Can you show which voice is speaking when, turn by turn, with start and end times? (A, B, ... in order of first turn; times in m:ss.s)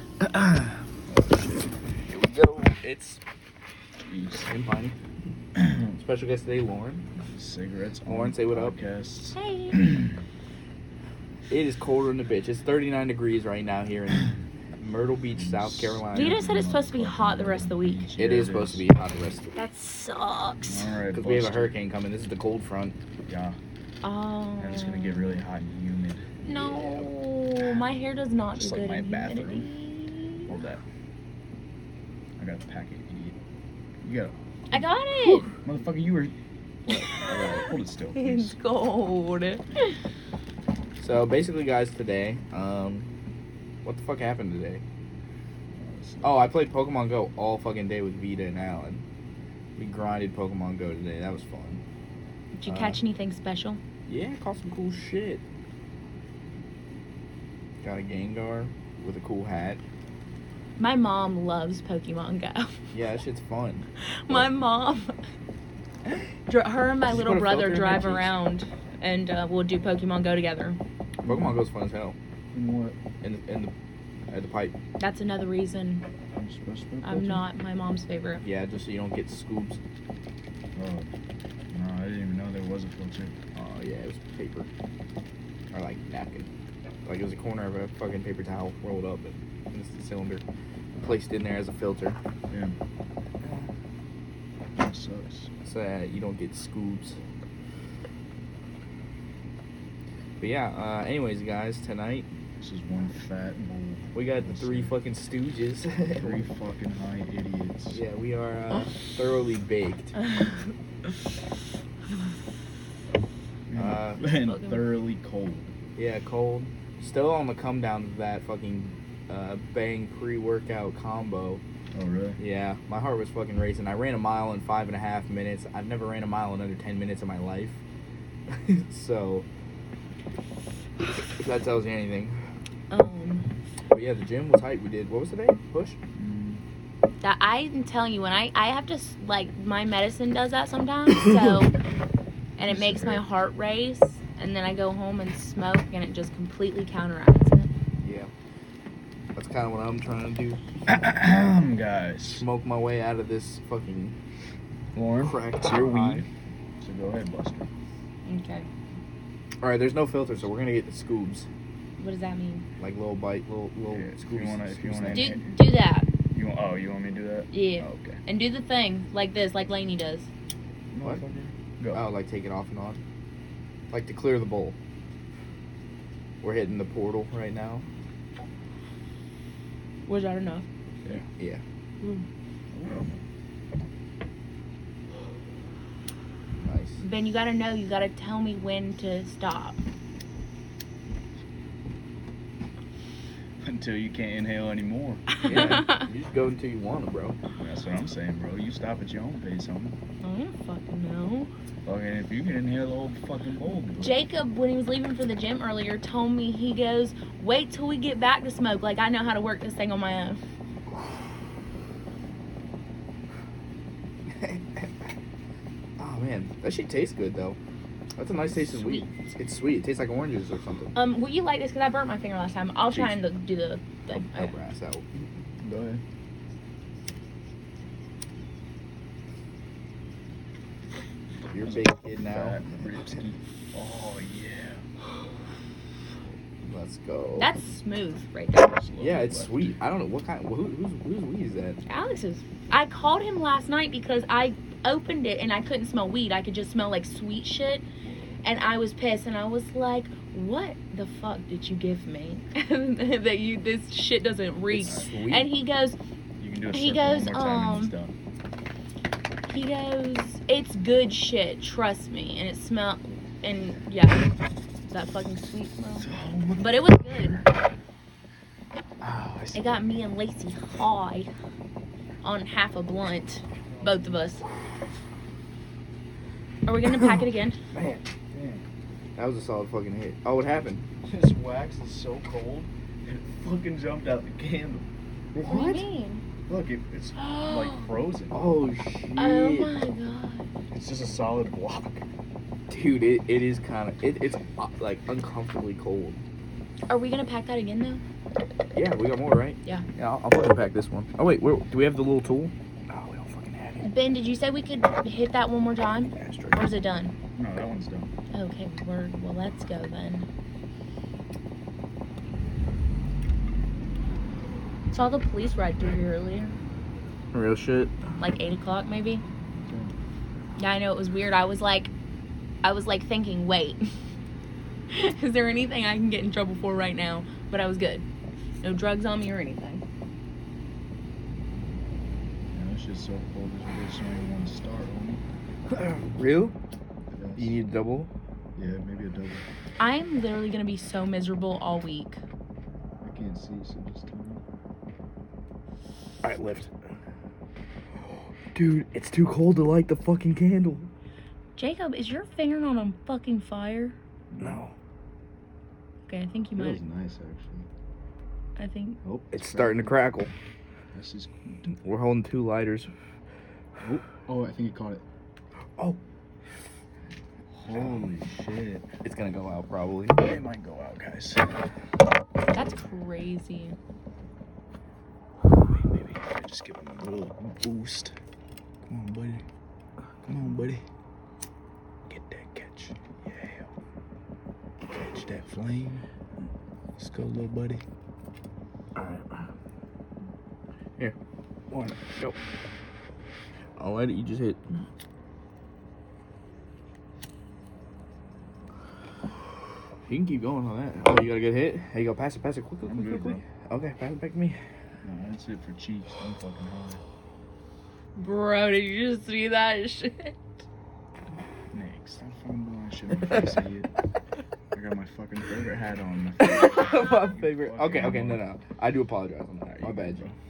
0:00.3-0:00.7 A
0:01.1-0:01.5 B
0:02.0-0:03.2 A
0:04.0-0:04.5 B
0:04.5-0:05.0 A
0:05.6-0:05.9 B
0:06.0-0:07.1 A
0:07.2-0:10.1 B
0:08.0-0:08.8 A
0:09.3-0:10.0 C
0:11.5-0:16.4 A
0:15.3-0:18.9 B
0:16.1-0:18.1 C
0:18.2-0:19.6 A
0:19.5-0:20.9 C
0:20.6-0:21.8 B
0:21.1-0:23.0 A
0:23.2-0:23.6 B
0:24.0-0:25.4 C
0:24.6-0:27.9 B
0:26.4-0:30.5 C
0:28.6-0:29.7 B
0:30.4-0:30.8 B
0:32.4-0:33.4 B
0:34.0-0:36.4 B
0:34.7-0:35.6 C
0:36.9-0:38.6 B
0:37.2-0:40.0 C
0:41.0-0:43.1 A
0:43.8-0:44.8 A
0:45.7-0:46.5 B
0:46.2-0:49.0 A
0:49.8-0:51.8 A
0:52.6-0:53.8 C
0:52.7-0:53.0 A
0:54.1-0:55.4 A
0:57.8-0:59.8 A
1:00.8-1:02.8 C
1:02.9-1:04.5 A
1:04.0-1:05.1 C
1:06.4-1:10.8 C
1:07.1-1:08.4 A
1:11.2-1:11.6 B
1:11.2-1:12.2 A
1:12.5-1:13.0 B
1:13.2-1:13.7 A
1:14.3-1:14.8 A
1:15.0-1:16.1 C
1:16.3-1:17.3 B
1:17.0-1:18.4 C
1:18.4-1:19.8 A
1:20.8-1:21.1 B
1:21.7-1:23.3 B
1:23.6-1:24.7 A
1:25.7-1:26.5 A
1:27.0-1:30.4 A
1:31.0-1:32.2 A
1:32.5-1:32.8 B
1:34.8-1:35.5 B
1:35.6-1:37.2 A
1:40.4-1:42.3 A
1:42.6-1:45.0 B
1:44.1-1:46.4 A
1:46.2-1:48.0 B
1:47.9-1:50.2 A
1:50.2-1:50.5 C
1:53.7-1:55.7 B
1:53.8-1:54.2 A
1:54.2-1:54.9 C
1:56.0-2:01.6 A
2:01.9-2:02.4 B
2:02.4-2:07.8 A
2:08.5-2:09.5 A
2:11.2-2:12.4 A
2:12.9-2:13.5 C
2:13.9-2:16.0 A
2:16.1-2:16.6 B
2:17.2-2:21.7 C
2:22.6-2:27.7 C
2:22.6-2:23.2 B
2:28.0-2:28.3 A
2:29.3-2:30.6 A
2:30.9-2:32.4 B
2:32.2-2:34.2 A
2:34.9-2:36.3 B
2:35.2-2:36.2 A
2:36.8-2:37.7 B
2:38.2-2:38.7 C
2:39.6-2:41.5 A
2:42.0-2:42.7 C
2:42.8-2:45.4 A
2:43.9-2:45.6 B
2:45.1-2:46.1 C
2:46.3-2:48.2 B
2:47.5-2:50.3 C
2:50.9-2:52.1 B
2:51.9-2:53.0 A
2:53.9-2:54.8 A
2:56.4-2:57.8 A
3:00.0-3:00.7 C
3:02.7-3:03.2 B
3:06.6-3:07.0 A
3:07.0-3:09.8 C
3:13.6-3:15.4 B
3:15.3-3:16.1 C
3:15.4-3:17.4 A
3:17.6-3:20.0 B
3:20.2-3:21.5 C
3:21.8-3:24.2 B
3:24.0-3:30.4 C
3:34.3-3:34.9 A
3:36.0-3:37.6 A
3:38.2-3:40.9 A
3:38.6-3:39.1 C
3:40.9-3:44.5 C
3:42.9-3:43.2 A
3:44.1-3:45.0 A
3:45.6-3:46.0 B
3:51.5-3:52.6 A
3:51.6-3:54.8 B
3:56.6-3:57.5 A
3:57.4-3:58.8 C
3:58.6-3:59.8 B
3:59.0-4:01.8 A
4:01.8-4:07.8 C
4:08.0-4:08.3 B
4:08.4-4:16.0 C
4:14.7-4:15.5 A
4:14.8-4:15.1 B
4:16.4-4:18.1 B
4:16.7-4:18.0 C
4:19.5-4:24.3 C
4:24.9-4:27.4 C
4:25.9-4:27.4 B
4:29.0-4:29.9 B
4:29.5-4:31.3 C
4:32.2-4:34.4 C
4:33.6-4:34.2 B
4:36.6-4:37.6 C
4:36.9-4:38.1 A
4:38.3-4:38.6 B
4:39.2-4:40.8 A
4:41.0-4:44.9 B
4:45.3-4:45.8 A
4:45.4-4:46.2 C
4:46.4-4:48.5 B
4:47.2-4:47.9 C
4:48.3-4:49.8 A
4:49.1-4:50.5 C
4:50.7-4:52.1 B
4:52.7-4:56.2 A
4:56.9-4:58.0 C
4:58.7-5:03.9 A
5:03.8-5:07.2 C
5:06.1-5:06.6 A
5:07.3-5:08.1 B
5:08.3-5:10.3 C
5:14.9-5:16.6 C
5:17.3-5:18.0 A
5:18.2-5:19.2 C
5:19.7-5:19.9 B
5:20.6-5:21.9 C
5:22.6-5:23.8 C
5:24.9-5:28.1 C
5:28.6-5:29.8 C
5:32.5-5:35.2 B
5:35.7-5:36.6 A
5:37.1-5:37.6 B
5:37.4-5:38.1 A
5:38.6-5:39.4 B
5:39.8-5:42.2 C
5:43.0-5:44.4 B
5:46.2-5:46.7 A
5:48.5-5:50.9 A
5:51.6-5:53.9 C
5:54.3-5:54.6 B
5:54.4-5:54.7 A
5:56.1-5:56.8 C
5:56.6-5:57.7 B
5:58.6-5:59.0 C
5:59.0-6:00.0 B
5:59.3-6:00.3 A
6:00.9-6:01.7 B
6:01.8-6:02.9 A
6:03.8-6:05.0 B
6:07.5-6:08.9 B
6:07.7-6:08.0 A
6:09.0-6:10.2 A
6:10.2-6:11.6 B
6:12.5-6:13.8 C
6:15.5-6:18.1 B
6:18.9-6:19.4 B
6:20.2-6:20.8 B
6:22.1-6:23.7 B
6:24.9-6:26.1 B
6:27.0-6:27.8 B
6:29.0-6:29.4 A
6:31.7-6:32.4 A
6:33.8-6:34.6 A
6:40.1-6:44.6 A
6:42.8-6:43.4 B
6:45.0-6:47.0 B
6:48.2-6:50.4 C
6:51.7-6:53.9 B
6:54.7-6:58.4 B
6:56.4-7:00.3 A
6:59.6-7:00.4 B